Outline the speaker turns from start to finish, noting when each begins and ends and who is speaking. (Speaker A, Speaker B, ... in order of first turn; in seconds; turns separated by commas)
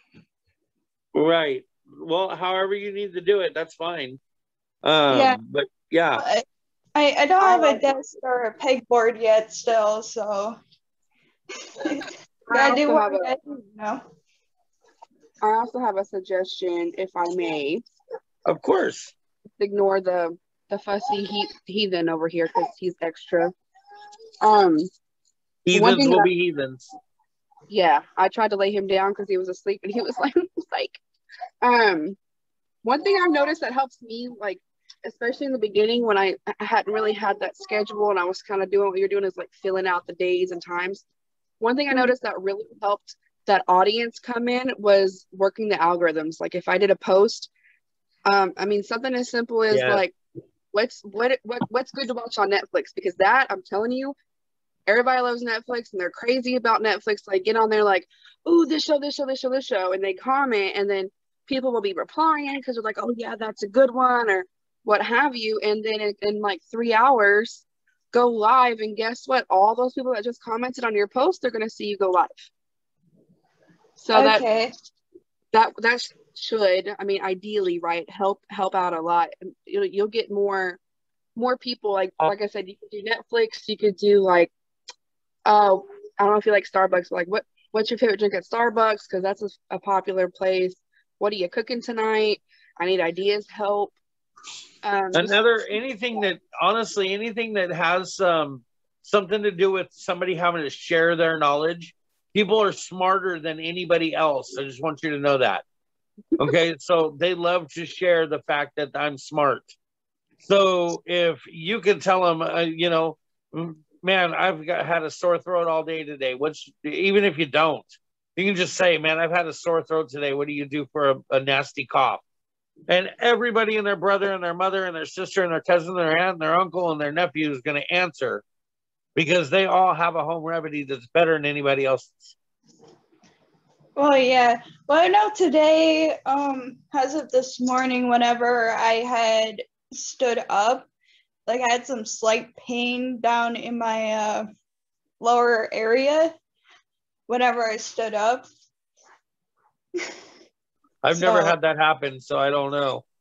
Speaker A: 1.1-4.2, Speaker A: 4.8-6.2, Speaker B: 5.1-5.4, Speaker B: 6.2-10.6, Speaker C: 7.4-7.8, Speaker B: 11.8-14.0, Speaker C: 12.5-13.3, Speaker C: 15.4-17.8, Speaker A: 18.4-19.1, Speaker C: 19.6-23.5, Speaker C: 24.4-24.9, Speaker A: 25.6-26.9, Speaker C: 25.7-26.3, Speaker C: 27.7-31.0, Speaker C: 31.6-32.2, Speaker C: 32.8-41.0, Speaker C: 41.6-47.5, Speaker C: 48.2-50.1, Speaker A: 49.7-50.0, Speaker C: 50.7-54.1, Speaker C: 54.9-72.5, Speaker C: 74.0-74.5, Speaker B: 74.1-74.7, Speaker C: 75.5-80.8, Speaker C: 81.3-84.5, Speaker C: 85.4-94.0, Speaker C: 94.8-95.4, Speaker A: 95.1-105.6, Speaker A: 106.4-109.7, Speaker A: 110.4-122.2, Speaker A: 122.9-128.4, Speaker A: 129.2-132.3, Speaker B: 134.0-140.9, Speaker B: 141.5-144.5, Speaker B: 145.2-146.3, Speaker B: 147.3-148.5, Speaker A: 151.0-153.0, Speaker B: 151.1-151.5